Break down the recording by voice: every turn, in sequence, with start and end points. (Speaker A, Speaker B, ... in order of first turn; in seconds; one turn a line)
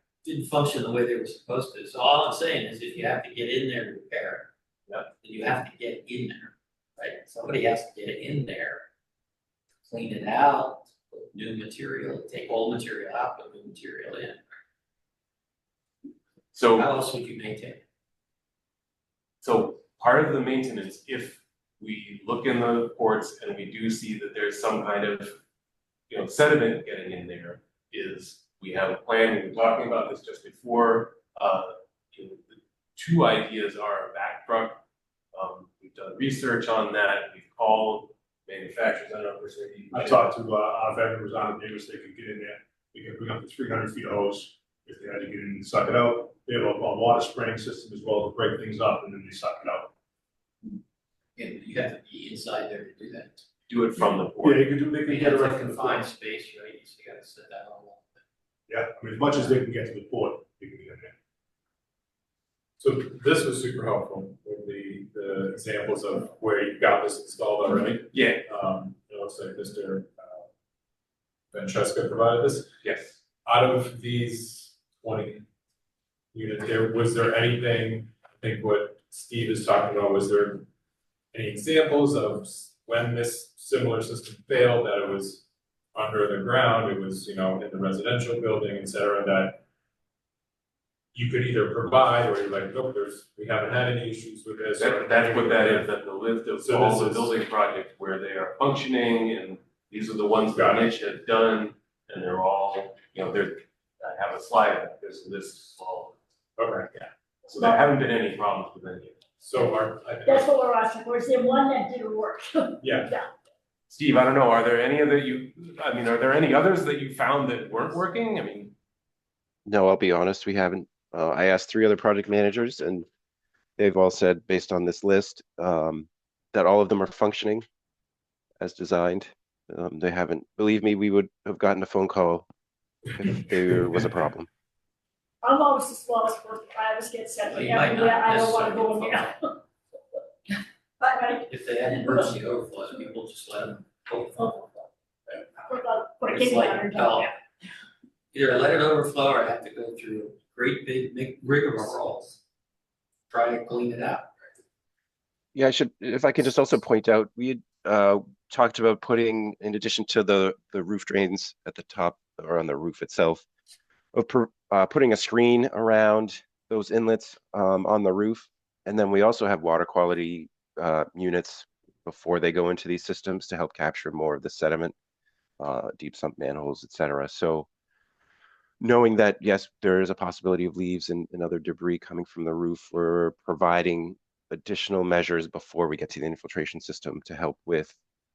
Speaker A: 0.2-4.5
Speaker A: 5.2-8.8
Speaker A: 9.8-14.4
Speaker B: 16.5-16.9
Speaker A: 16.8-17.8
Speaker B: 19.4-25.4
Speaker B: 26.1-34.8
Speaker B: 35.3-40.4
Speaker C: 39.9-49.9
Speaker A: 51.4-53.4
Speaker B: 53.7-54.7
Speaker C: 54.4-56.1
Speaker A: 55.0-58.2
Speaker C: 58.7-61.1
Speaker D: 62.8-70.5
Speaker B: 68.1-68.4
Speaker D: 71.5-72.7
Speaker B: 72.8-73.2
Speaker D: 73.5-75.5
Speaker D: 76.3-80.7
Speaker D: 81.3-89.6
Speaker D: 91.1-95.9
Speaker B: 94.8-106.2
Speaker D: 96.6-97.3
Speaker D: 100.5-100.9
Speaker D: 106.6-107.1
Speaker B: 107.5-109.2
Speaker D: 109.4-110.5
Speaker E: 110.3-113.3
Speaker D: 112.8-113.1
Speaker B: 113.9-118.8
Speaker F: 119.7-123.1
Speaker F: 123.8-127.7
Speaker F: 128.6-132.5
Speaker F: 133.1-134.5
Speaker E: 135.4-139.5
Speaker A: 137.4-139.4
Speaker E: 141.0-141.4
Speaker A: 141.5-144.5
Speaker E: 142.1-142.3
Speaker E: 144.4-144.9
Speaker E: 145.6-147.3
Speaker A: 146.3-147.3
Speaker A: 148.3-152.4
Speaker A: 153.3-154.3
Speaker F: 155.5-163.5
Speaker F: 164.1-174.9
Speaker F: 175.6-177.7
Speaker F: 178.8-188.0